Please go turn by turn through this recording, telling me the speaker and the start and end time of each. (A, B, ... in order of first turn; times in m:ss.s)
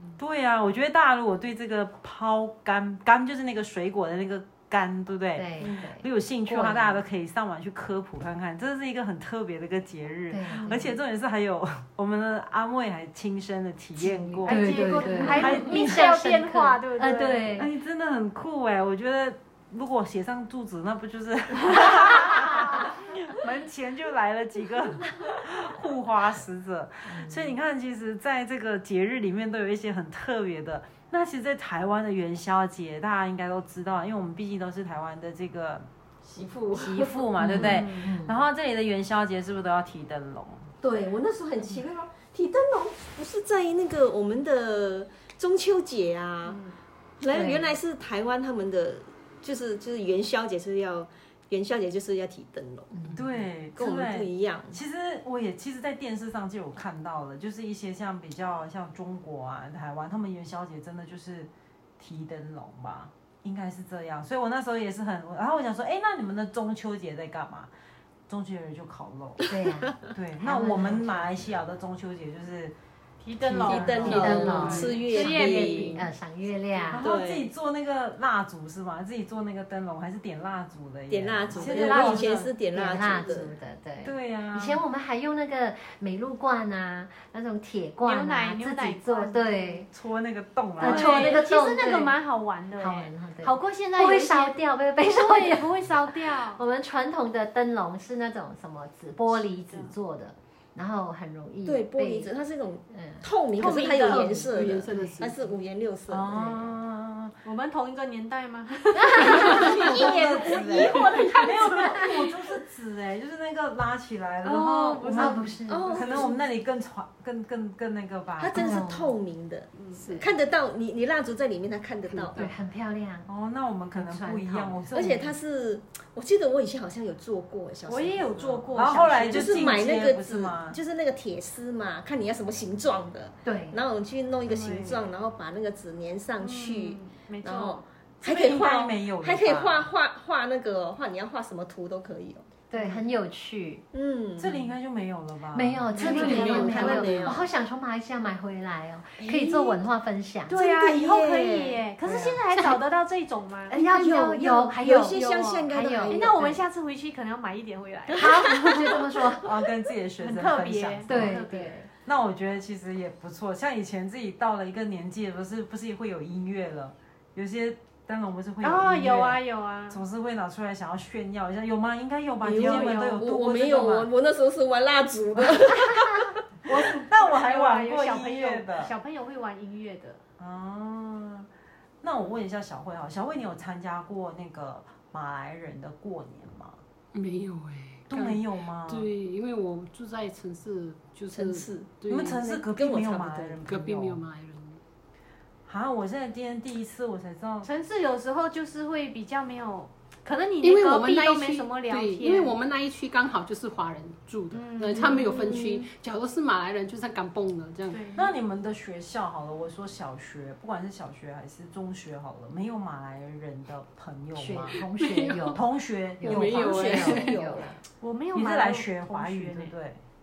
0:00.2-0:14.7 A
0:05.3-0:07.0 B
0:10.3-0:11.0 B
0:10.5-0:10.9 C
0:14.0-0:17.7 B
0:14.4-0:17.6 C
0:15.3-0:16.1 A
0:17.5-0:35.9 A
0:27.0-0:27.6 B
0:36.3-0:37.2 D
0:36.7-0:40.7 A
0:37.4-0:38.4 B
0:37.5-0:38.1 C
0:40.8-0:46.6 D
0:46.4-0:46.7 C
0:47.2-0:52.9 D
0:47.3-0:47.7 B
0:52.9-0:53.2 B
0:53.1-1:07.7 A
0:53.7-0:54.8 D
1:08.3-1:09.4 A
1:09.5-1:11.3 B
1:10.1-1:12.7 A
1:13.2-1:16.0 C
1:13.4-1:15.9 A
1:13.6-1:16.0 D
1:14.1-1:14.4 E
1:14.1-1:17.0 B
1:16.9-1:17.5 D
1:16.9-1:22.4 A
1:21.1-1:23.5 D
1:21.5-1:22.5 C
1:22.7-1:29.9 B
1:24.0-1:24.8 A
1:28.0-1:29.8 C
1:29.9-1:31.4 A
1:30.8-1:32.2 B
1:30.8-1:36.6 C
1:32.8-1:35.7 B
1:36.2-1:42.3 B
1:39.4-1:39.9 C
1:41.6-1:46.3 D
1:42.9-1:43.3 B
1:43.6-1:44.3 C
1:43.8-1:45.3 B
1:44.0-1:45.5 E
1:46.1-1:47.4 A
1:46.3-1:46.7 B
1:47.4-1:52.2 C
1:49.0-1:49.9 B
1:49.5-1:58.6 A
1:49.6-1:52.0 D
1:51.6-1:52.1 B
1:54.4-1:55.6 C
1:55.1-1:56.0 B
1:55.7-1:56.4 D
1:58.4-2:02.4 D
1:58.5-1:59.2 B
1:59.9-2:00.3 E
2:02.1-2:02.5 E
2:02.4-2:03.3 B
2:03.3-2:05.4 A
2:03.9-2:04.8 B
2:04.9-2:08.7 D
2:07.8-2:09.8 C
2:08.7-2:10.8 A
2:09.3-2:22.5 D
2:13.4-2:13.8 B
2:14.5-2:15.0 C
2:16.4-2:17.8 C
2:18.2-2:19.8 A
2:22.7-2:23.8 B
2:23.9-2:24.7 D
2:24.4-2:27.2 A
2:25.5-2:30.6 B
2:25.9-2:27.5 D
2:26.0-2:27.3 C
2:29.2-2:29.8 D
2:30.5-2:33.7 C
2:30.5-2:31.8 D
2:32.1-2:32.3 A
2:33.7-2:35.2 B
2:33.7-2:36.3 D
2:34.7-2:38.9 C
2:35.7-2:36.6 B
2:38.1-2:39.5 B
2:39.4-2:41.4 A
2:40.2-2:41.8 C
2:41.0-2:41.9 B
2:42.0-2:54.1 A
2:48.6-2:50.0 C
2:52.4-2:56.3 D
2:52.5-2:53.2 C
2:56.7-3:00.2 C
2:56.8-2:58.9 A
3:00.4-3:01.5 A
3:02.0-3:06.8 A
3:07.1-3:12.5 E
3:08.1-3:09.1 A
3:11.3-3:13.6 D
3:12.1-3:14.2 A
3:13.6-3:14.8 E
3:15.6-3:17.7 A
3:17.6-3:22.6 C
3:20.6-3:28.2 E
3:24.5-3:25.7 C
3:25.2-3:25.8 D
3:27.9-3:28.3 C
3:28.2-3:34.8 A
3:34.3-3:35.6 B
3:34.8-3:35.6 E
3:35.5-3:36.4 A
3:36.2-3:37.7 B
3:36.2-3:37.8 D
3:36.3-3:37.3 E
3:38.0-3:39.7 C
3:38.3-3:40.0 A